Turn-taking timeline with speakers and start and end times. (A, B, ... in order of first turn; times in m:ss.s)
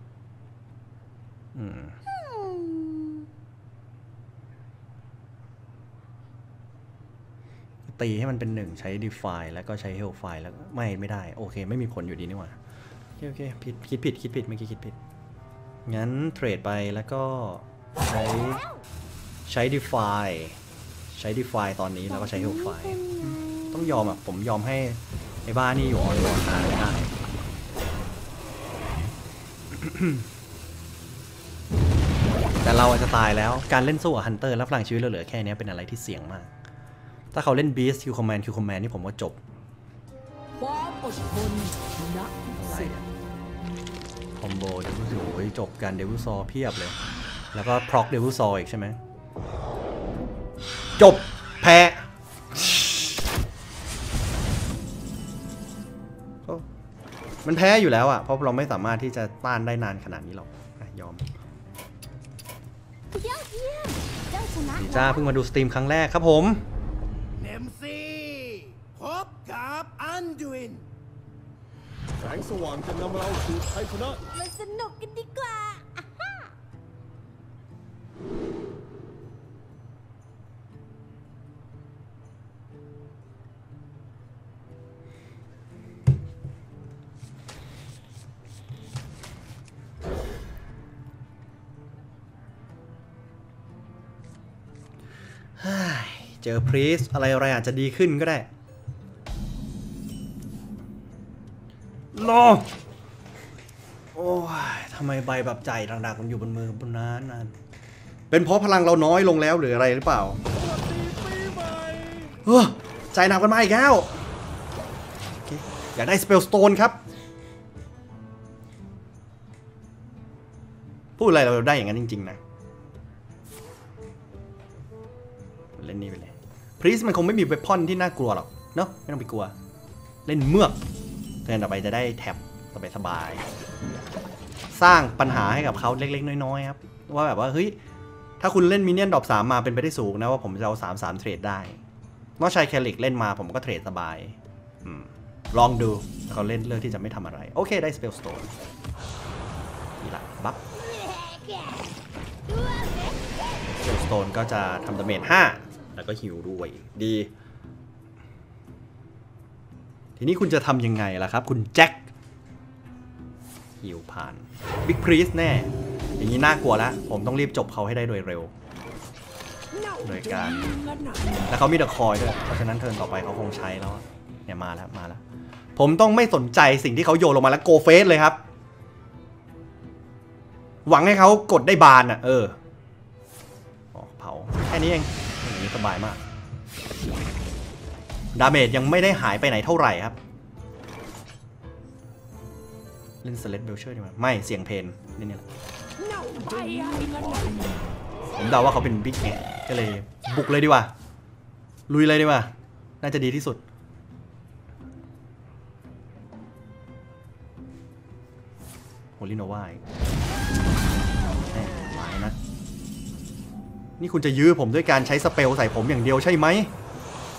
0:01.6-0:02.0 A
0:02.1-0:03.3 B
0:07.9-0:12.6 A
0:13.2-0:15.0 A
0:15.9-0:18.6 A
0:19.5-0:20.6 A
0:21.1-0:27.1 A
0:22.1-0:23.8 B
0:29.8-0:30.2 A
0:32.6-0:36.5 A
0:37.3-0:39.4 A
0:40.6-0:43.0 C
0:42.6-0:43.0 A
0:44.4-0:47.0 A
0:47.5-0:49.0 A
0:51.0-0:52.8 A
0:57.4-1:01.3 A
1:03.1-1:05.3 B
1:04.8-1:06.6 A
1:07.4-1:10.8 D
1:12.2-1:14.2 E
1:14.3-1:16.5 B
1:35.6-1:38.5 A
1:42.1-1:42.7 A
1:44.2-1:47.6 A
1:48.3-1:50.4 A
1:50.7-1:52.2 D
1:52.4-1:54.2 A
1:55.4-1:57.0 A
2:01.2-2:02.4 A
2:05.8-2:09.5 A
2:10.3-2:10.8 A
2:11.4-2:13.5 A
2:14.7-2:17.8 A
2:18.4-2:21.8 A
2:22.4-2:28.5 A
2:30.0-2:30.6 A
2:30.8-2:31.8 B
2:32.5-2:33.4 B
2:33.8-2:37.3 A
2:40.2-2:42.1 A
2:43.8-2:48.5 A
2:49.7-2:51.5 D
2:50.0-2:50.8 A
2:51.5-2:55.2 A
2:55.8-2:58.4 A
3:00.9-3:02.6 A
3:03.9-3:06.2 A
3:08.4-3:10.2 A
3:13.2-3:15.5 A
3:16.0-3:17.9 D
3:18.4-3:20.9 A
3:21.9-3:23.6 A
3:29.2-3:29.8 A
3:31.1-3:32.4 A
3:34.0-3:36.7 A